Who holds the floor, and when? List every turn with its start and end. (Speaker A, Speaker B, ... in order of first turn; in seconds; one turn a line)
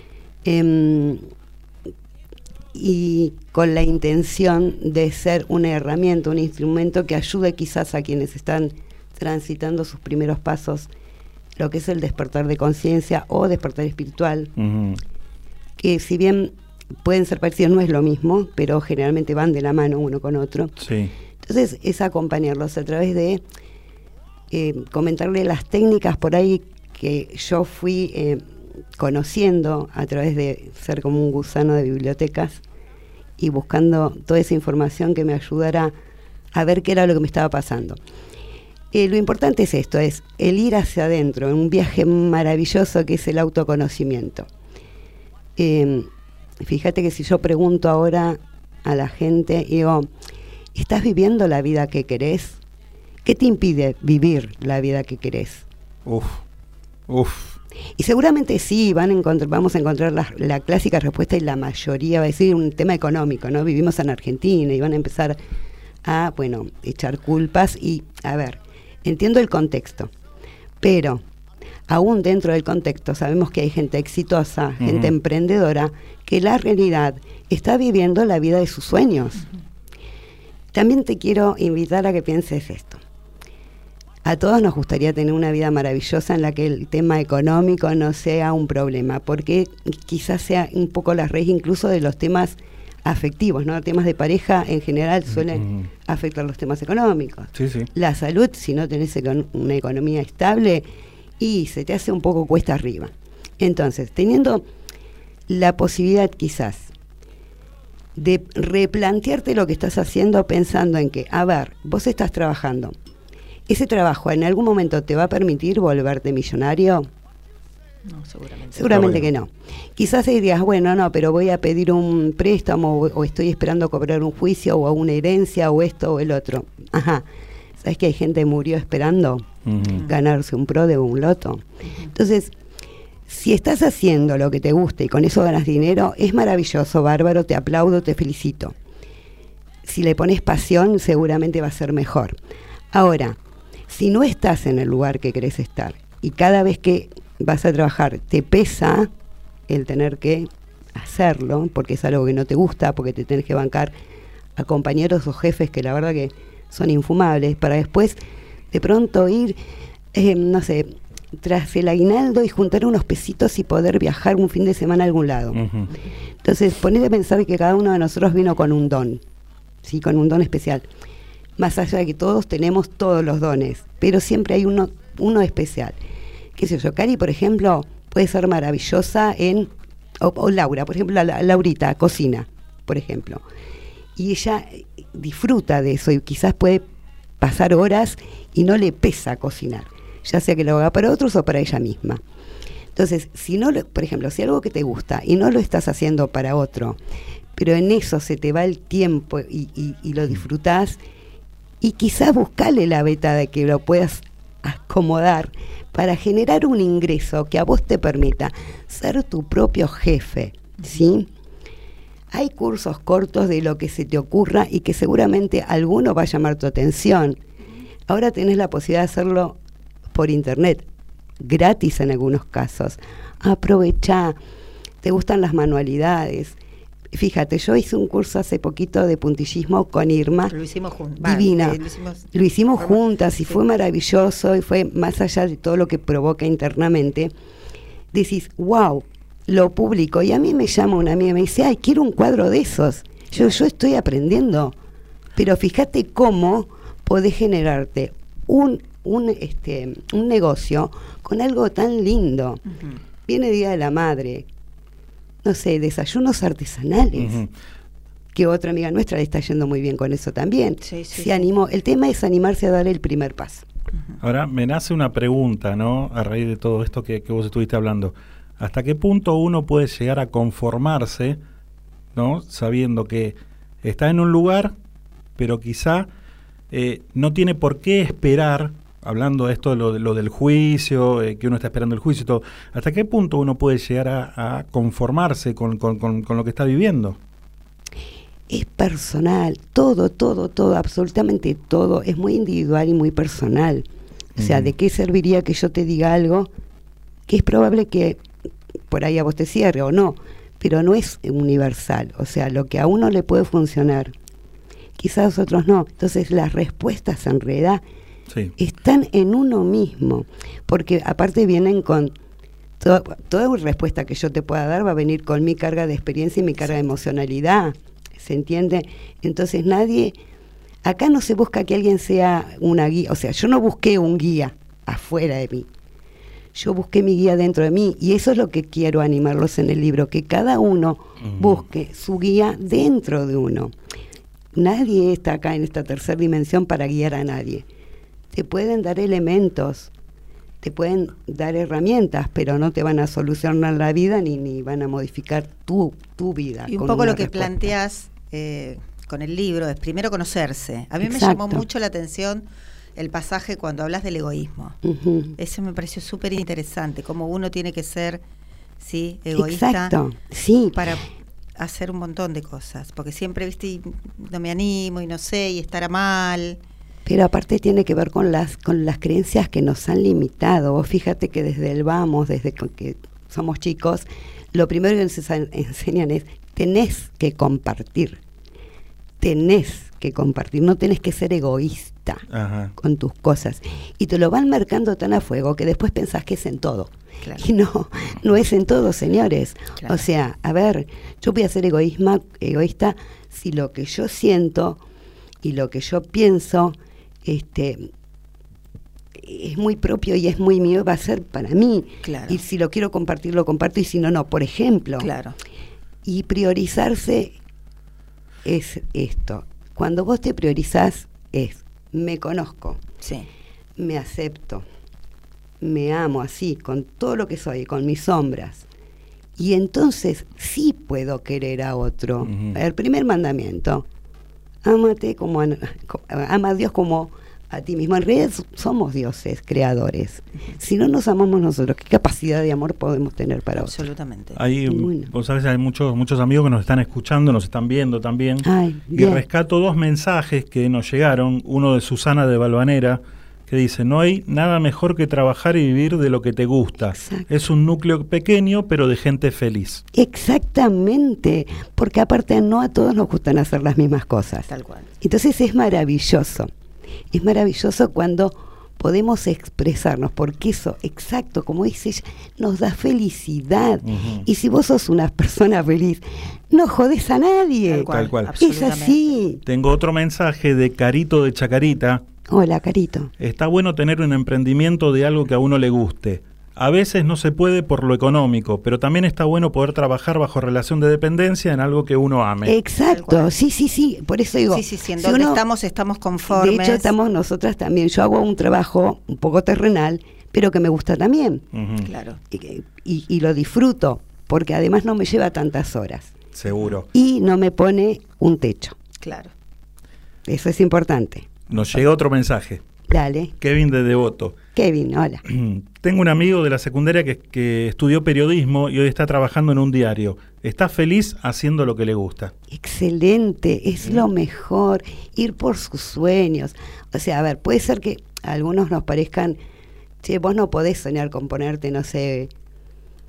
Speaker A: 0.4-1.2
Speaker A: 2.7-10.9
Speaker A: 11.6-14.5
Speaker B: 14.6-15.0
Speaker A: 15.8-20.7
Speaker B: 20.8-21.1
Speaker A: 21.4-23.4
Speaker A: 24.5-32.6
Speaker A: 33.4-35.9
Speaker A: 36.5-38.0
Speaker A: 38.9-44.5
Speaker A: 45.6-46.1
Speaker A: 46.6-50.1
Speaker A: 50.7-52.6
Speaker A: 53.2-55.7
Speaker B: 56.0-56.4
Speaker B: 57.1-57.5
Speaker A: 58.0-65.4
Speaker A: 66.0-70.1
Speaker A: 70.8-71.2
Speaker A: 71.9-79.4
Speaker B: 74.8-75.1
Speaker A: 80.7-83.0
Speaker A: 84.2-100.8
Speaker B: 95.3-95.9
Speaker B: 97.6-97.9
Speaker A: 101.4-104.6
Speaker A: 105.5-106.9
Speaker A: 108.2-112.9
Speaker A: 113.7-117.1
Speaker C: 118.0-119.1
Speaker A: 118.7-127.2
Speaker B: 118.9-119.3
Speaker A: 127.8-132.5
Speaker B: 129.7-130.0
Speaker A: 133.3-138.7
Speaker A: 139.8-142.4
Speaker A: 142.9-143.4
Speaker A: 143.9-149.1
Speaker A: 149.7-153.9
Speaker A: 154.6-158.2
Speaker A: 158.7-159.6
Speaker A: 160.1-165.6
Speaker B: 165.5-165.9
Speaker A: 166.4-169.2
Speaker A: 169.8-170.8
Speaker A: 171.6-176.0
Speaker A: 176.6-179.7
Speaker A: 180.2-183.4
Speaker A: 184.2-186.8
Speaker A: 187.4-192.2
Speaker A: 192.9-197.0
Speaker A: 197.6-201.0
Speaker A: 201.8-211.3
Speaker A: 212.3-217.4
Speaker A: 218.1-219.6
Speaker A: 220.1-220.8
Speaker A: 221.4-224.3
Speaker A: 225.0-226.6
Speaker A: 227.1-230.5
Speaker C: 230.5-233.6
Speaker A: 231.2-231.8
Speaker A: 232.3-237.3
Speaker A: 238.1-244.7
Speaker A: 245.3-252.6
Speaker C: 252.7-253.0
Speaker A: 253.2-254.4
Speaker A: 255.4-257.4
Speaker B: 257.1-257.5
Speaker A: 258.3-263.6
Speaker C: 260.8-261.5
Speaker B: 264.2-271.4
Speaker B: 272.1-274.7
Speaker B: 275.4-276.1
Speaker B: 276.7-287.2
Speaker A: 288.5-293.8
Speaker B: 294.4-294.7
Speaker A: 294.4-296.5
Speaker A: 297.3-298.2
Speaker A: 298.9-304.1
Speaker A: 305.0-307.8
Speaker A: 308.6-312.1
Speaker A: 312.8-320.1
Speaker A: 320.8-325.7
Speaker A: 326.5-333.7
Speaker B: 331.2-331.6
Speaker A: 334.5-337.6
Speaker A: 338.3-339.9
Speaker A: 340.6-347.7
Speaker C: 346.7-354.8
Speaker A: 351.0-351.6
Speaker A: 354.8-355.3
Speaker C: 355.4-358.2
Speaker C: 358.8-360.0
Speaker A: 359.3-360.9
Speaker C: 360.7-361.0
Speaker C: 361.6-366.6
Speaker A: 367.1-378.2
Speaker A: 379.2-382.2
Speaker B: 382.3-382.7
Speaker A: 382.8-394.8
Speaker C: 389.8-390.0
Speaker A: 395.4-397.9
Speaker A: 399.2-405.1
Speaker C: 402.0-402.4
Speaker C: 405.0-405.4
Speaker A: 406.0-407.3
Speaker A: 408.4-412.8
Speaker C: 413.0-413.3
Speaker A: 413.8-414.6
Speaker A: 415.6-418.6
Speaker A: 419.4-423.8
Speaker B: 422.2-422.6
Speaker A: 424.6-433.8
Speaker C: 433.6-434.4
Speaker B: 434.4-449.8
Speaker A: 434.7-435.1
Speaker A: 438.4-439.2
Speaker A: 446.9-447.3
Speaker A: 449.9-454.5
Speaker C: 454.5-454.9
Speaker A: 455.0-456.5
Speaker A: 457.1-469.4
Speaker B: 463.8-464.2
Speaker C: 467.6-469.1
Speaker B: 467.9-468.3
Speaker B: 469.4-472.0
Speaker A: 472.3-473.1
Speaker B: 473.2-482.5
Speaker A: 482.4-485.4
Speaker C: 482.9-483.3
Speaker C: 484.5-486.9
Speaker A: 486.3-491.5
Speaker B: 491.5-491.9
Speaker C: 491.8-492.2
Speaker A: 492.3-496.2
Speaker B: 496.4-496.9
Speaker A: 496.9-498.8
Speaker C: 499.0-499.3
Speaker A: 500.2-501.8
Speaker B: 501.5-502.6
Speaker A: 502.9-503.3
Speaker B: 503.4-504.4
Speaker A: 504.5-505.2
Speaker B: 505.3-512.3
Speaker A: 512.5-519.4
Speaker A: 520.0-522.3